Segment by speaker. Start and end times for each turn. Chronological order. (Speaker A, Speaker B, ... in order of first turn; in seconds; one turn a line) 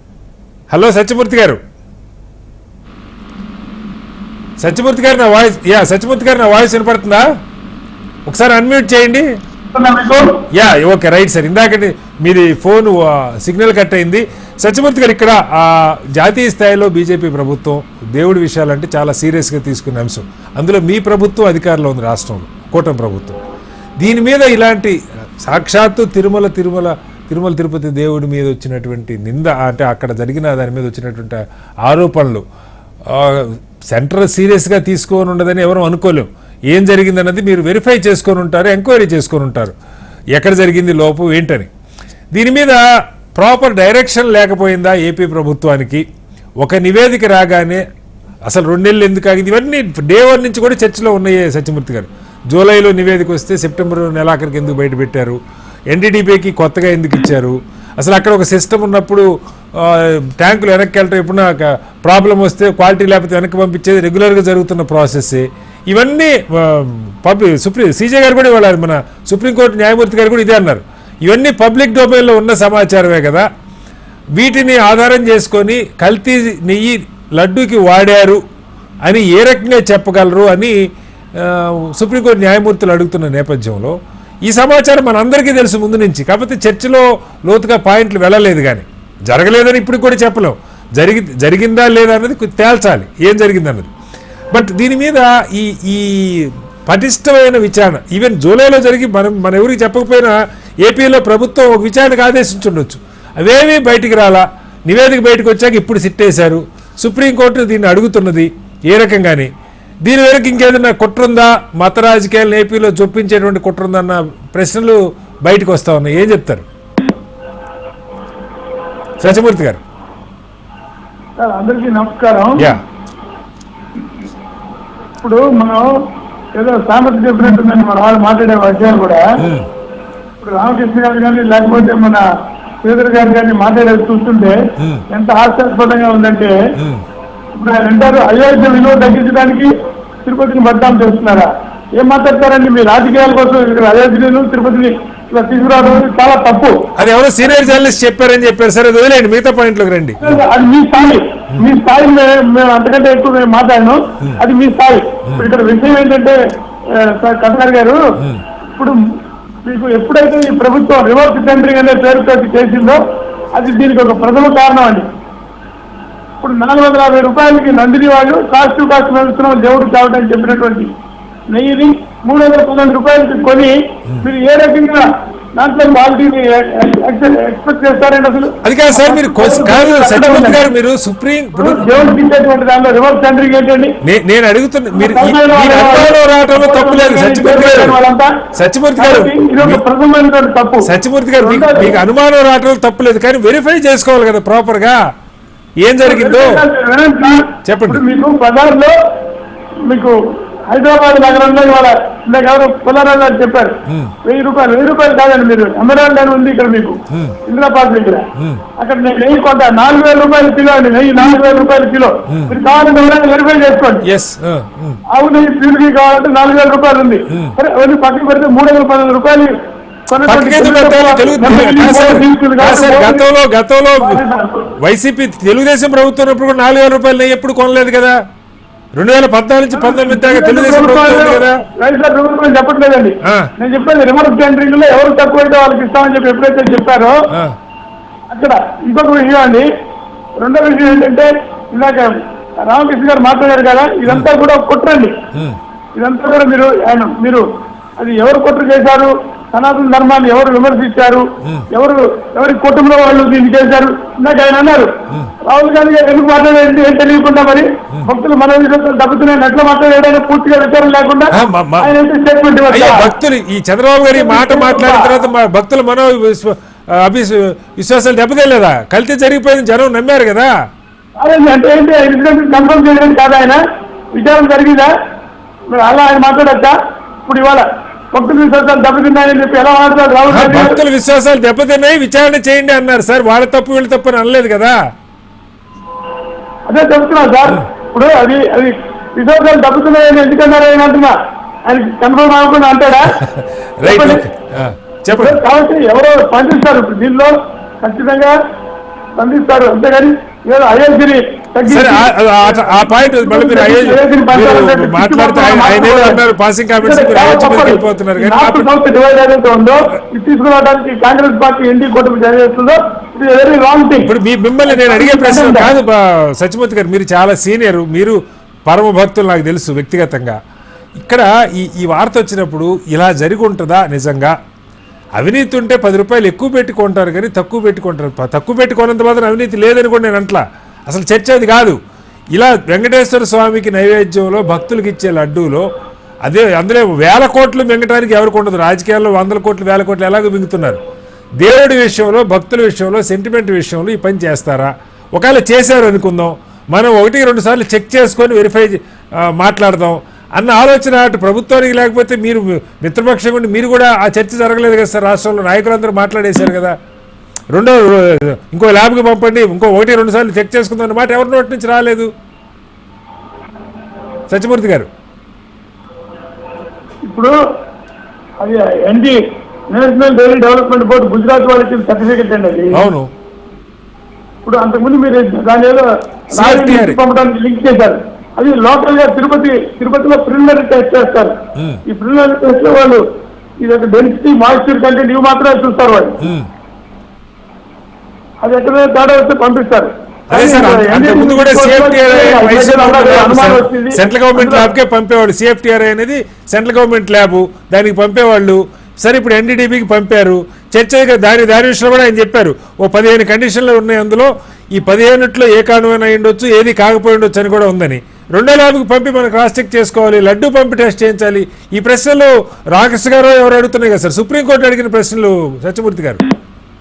Speaker A: 0.7-1.6
Speaker A: 4.6-7.2
Speaker A: 8.3-9.2
Speaker B: 9.7-10.4
Speaker A: 10.5-23.4
Speaker A: 24.0-32.4
Speaker A: 33.1-39.7
Speaker A: 40.3-41.7
Speaker A: 42.3-42.8
Speaker A: 43.3-46.0
Speaker A: 46.6-47.8
Speaker A: 48.5-55.4
Speaker A: 55.9-73.5
Speaker A: 74.3-78.4
Speaker A: 79.0-80.8
Speaker A: 81.3-93.9
Speaker A: 94.5-109.5
Speaker A: 110.0-116.7
Speaker A: 119.2-119.8
Speaker B: 121.4-122.7
Speaker B: 125.2-125.9
Speaker B: 126.5-129.2
Speaker A: 129.4-129.7
Speaker B: 130.4-132.2
Speaker B: 132.8-134.6
Speaker A: 134.8-135.0
Speaker B: 135.1-136.5
Speaker A: 136.8-137.0
Speaker B: 137.6-139.7
Speaker B: 140.2-146.8
Speaker A: 146.9-150.4
Speaker B: 150.2-156.3
Speaker B: 156.9-158.0
Speaker B: 159.6-163.0
Speaker B: 163.5-165.1
Speaker B: 166.4-170.9
Speaker B: 171.5-175.1
Speaker B: 175.6-180.6
Speaker A: 178.6-181.9
Speaker B: 181.6-183.9
Speaker A: 184.0-188.0
Speaker B: 184.9-188.3
Speaker A: 188.5-189.8
Speaker B: 189.0-190.8
Speaker A: 190.8-195.0
Speaker B: 191.4-192.0
Speaker A: 195.8-196.6
Speaker B: 196.0-198.9
Speaker A: 197.6-198.0
Speaker B: 199.9-200.1
Speaker B: 200.7-214.0
Speaker A: 203.9-204.1
Speaker A: 207.1-207.4
Speaker A: 208.4-208.6
Speaker A: 214.0-215.0
Speaker B: 215.1-219.5
Speaker A: 217.3-217.5
Speaker B: 220.1-223.2
Speaker A: 220.2-224.2
Speaker B: 224.0-224.7
Speaker A: 224.8-228.2
Speaker A: 228.9-231.6
Speaker B: 229.7-237.2
Speaker B: 238.3-239.7
Speaker B: 240.4-242.1
Speaker B: 242.7-245.1
Speaker B: 245.9-247.4
Speaker B: 248.0-254.9
Speaker B: 255.4-263.1
Speaker A: 261.3-261.9
Speaker A: 262.7-270.5
Speaker B: 264.1-265.1
Speaker B: 271.2-273.6
Speaker B: 274.1-274.9
Speaker B: 275.7-276.7
Speaker B: 277.2-280.8
Speaker A: 280.3-284.8
Speaker B: 286.7-291.1
Speaker B: 291.6-293.2
Speaker A: 293.2-295.4
Speaker B: 293.8-294.2
Speaker B: 295.1-298.3
Speaker B: 299.2-306.2
Speaker A: 301.7-308.6
Speaker B: 306.8-314.1
Speaker A: 314.0-320.4
Speaker B: 314.6-315.7
Speaker A: 321.0-324.3
Speaker A: 325.2-331.8
Speaker A: 332.3-335.6
Speaker A: 336.2-340.8
Speaker A: 341.4-356.7
Speaker A: 357.5-362.1
Speaker A: 364.3-364.9
Speaker B: 367.1-367.3
Speaker B: 368.4-369.2
Speaker B: 369.7-372.8
Speaker A: 372.7-373.1
Speaker B: 374.4-381.3
Speaker A: 376.3-377.0
Speaker A: 381.6-381.8
Speaker B: 381.9-383.0
Speaker B: 383.6-386.2
Speaker A: 386.2-386.5
Speaker B: 388.4-394.7
Speaker A: 390.3-416.2